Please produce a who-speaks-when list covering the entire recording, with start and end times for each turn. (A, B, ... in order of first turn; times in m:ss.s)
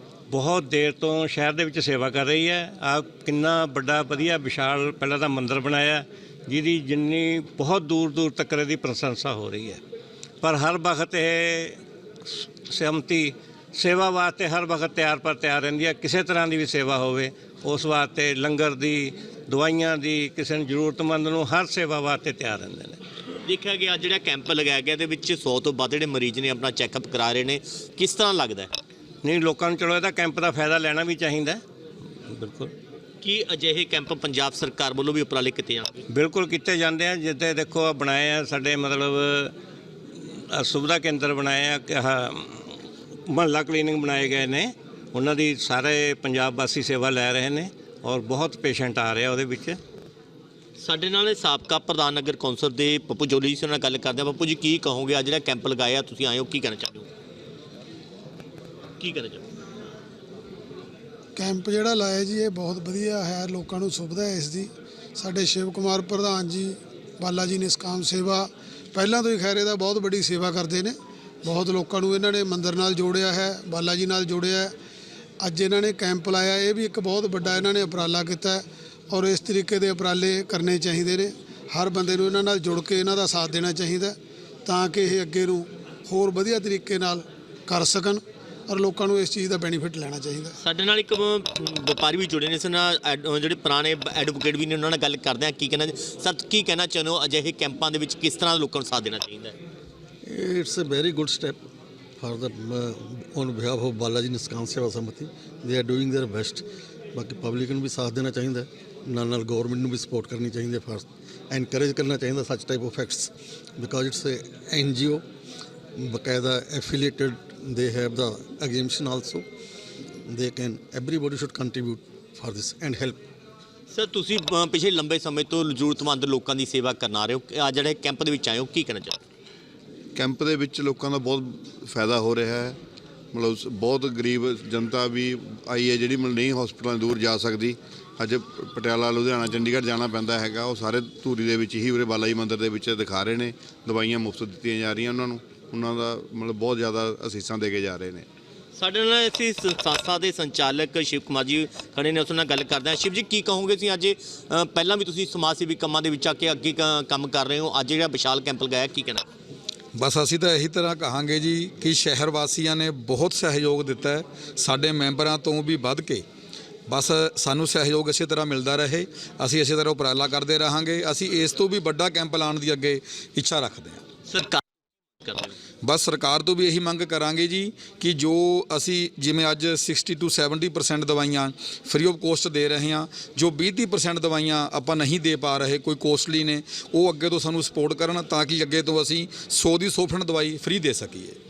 0:00.3-0:09.8 A
0:10.4-0:11.8 A
0:12.7-0:23.0 A
0:23.4-0:28.7 B
0:29.2-0:31.6 A
0:32.3-0:32.7 A
0:33.2-0:36.0 B
0:36.1-0:39.5 A
0:40.5-0:42.7 A
0:43.3-0:49.8 A
0:50.8-0:57.0 B
0:59.0-0:59.4 B
1:01.4-1:14.7 C
1:15.4-1:30.5 C
1:30.6-1:39.5 B
1:40.3-1:41.6 D
1:42.2-1:46.6 D
1:47.1-1:55.2 D
1:56.0-1:59.4 D
2:00.3-2:03.2 D
2:03.9-2:09.2 B
2:10.2-2:12.8 E
2:13.3-2:28.2 E
2:28.7-2:39.2 B
2:39.9-2:46.2 F
2:46.9-2:54.0 F
2:54.3-2:54.6 B
2:55.2-2:55.5 B
2:55.8-3:11.4 F